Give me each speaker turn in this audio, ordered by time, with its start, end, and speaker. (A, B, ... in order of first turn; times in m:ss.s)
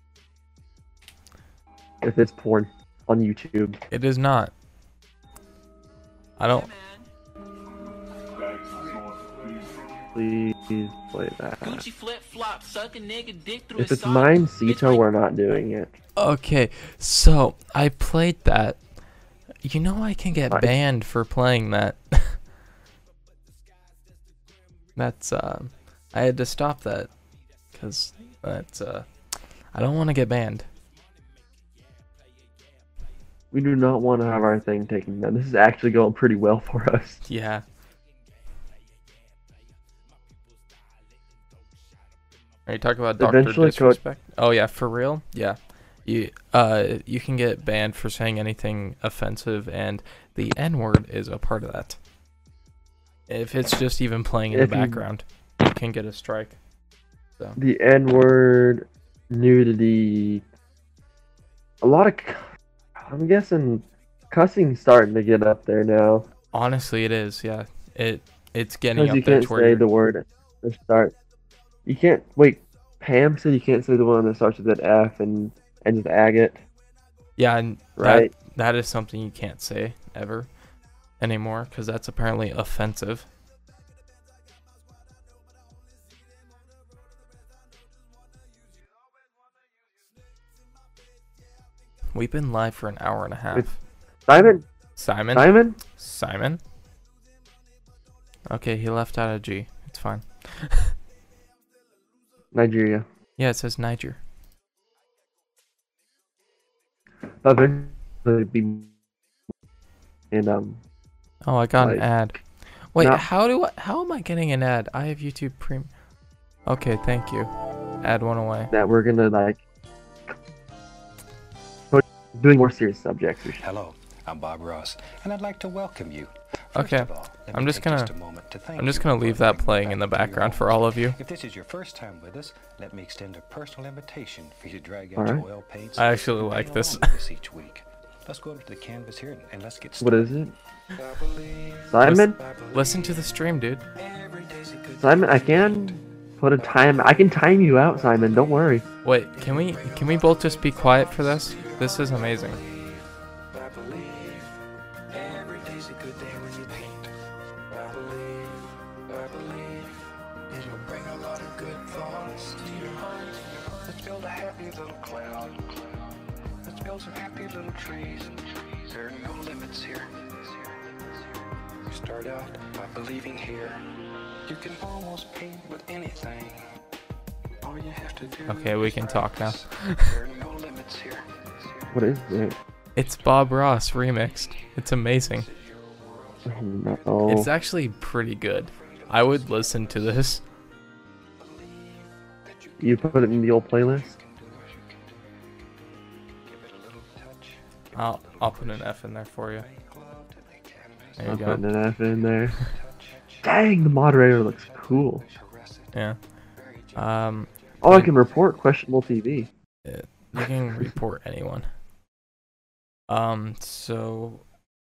0:02.0-0:03.8 A
0:03.9-0:04.5 B
0:06.4-0:06.7 B
0:06.4-0:07.1 C
0:10.1-0:11.8 A
0:11.6-0:15.0 C
0:13.8-0:15.9 A
0:16.2-0:18.8 B
0:19.6-0:22.4 B
0:25.0-0:27.1 B
0:27.7-0:29.1 B
0:29.7-0:30.7 B
0:33.5-0:37.2 A
0:37.2-0:37.6 B
0:42.6-0:52.0 B
0:43.2-0:44.0 A
0:53.3-0:56.6 B
0:54.5-0:55.0 A
0:57.6-1:00.4 A
1:01.8-1:02.5 A
1:03.0-1:06.3 A
1:06.5-1:09.8 B
1:08.9-1:11.1 A
1:11.8-1:16.6 A
1:17.4-1:20.5 B
1:18.0-1:18.3 A
1:21.2-1:23.3 B
1:32.1-1:33.8 B
1:34.2-1:34.6 A
1:35.0-1:36.6 B
1:35.3-1:35.8 A
1:38.5-1:40.9 B
1:42.5-1:43.0 A
1:43.4-1:44.2 B
1:47.4-1:48.9 A
1:50.3-1:50.8 A
1:51.4-1:52.4 B
1:51.8-1:52.0 A
1:52.9-1:55.9 B
1:53.0-1:53.2 A
1:56.6-1:58.7 B
1:58.7-1:59.6 A
2:01.9-2:03.6 A
2:03.6-2:20.3 D
2:06.7-2:08.1 B
2:08.8-2:11.2 B
2:15.2-2:15.4 A
2:16.0-2:17.1 B
2:20.0-2:20.5 A
2:21.0-2:23.0 E
2:21.9-2:22.4 A
2:22.0-2:23.8 B
2:24.0-2:25.8 E
2:25.0-2:28.8 A
2:25.3-2:25.6 D
2:26.6-2:27.2 E
2:28.0-2:28.5 E
2:29.0-2:32.6 B
2:29.3-2:34.6 E
2:35.1-2:37.1 E
2:37.7-2:46.0 E
2:46.6-2:50.8 E
2:51.8-2:53.8 E
2:54.5-2:56.7 E
2:57.6-3:02.5 E
2:58.5-3:00.2 B
3:01.9-3:02.5 A
3:02.9-3:05.5 B
3:03.0-3:07.5 E
3:06.5-3:07.5 A
3:07.3-3:10.4 B
3:08.7-3:10.3 E
3:11.4-3:15.2 E
3:12.8-3:14.1 A
3:16.5-3:18.8 E
3:17.9-3:19.7 B
3:18.0-3:18.7 D
3:19.6-3:21.6 E
3:21.2-3:21.6 B
3:21.2-3:22.6 A
3:22.5-3:23.5 E
3:23.4-3:25.2 A
3:24.4-3:25.9 E
3:25.9-3:26.2 B
3:26.6-3:28.5 E
3:27.0-3:28.1 B
3:27.8-3:29.5 A
3:29.8-3:31.7 B
3:33.1-3:34.4 B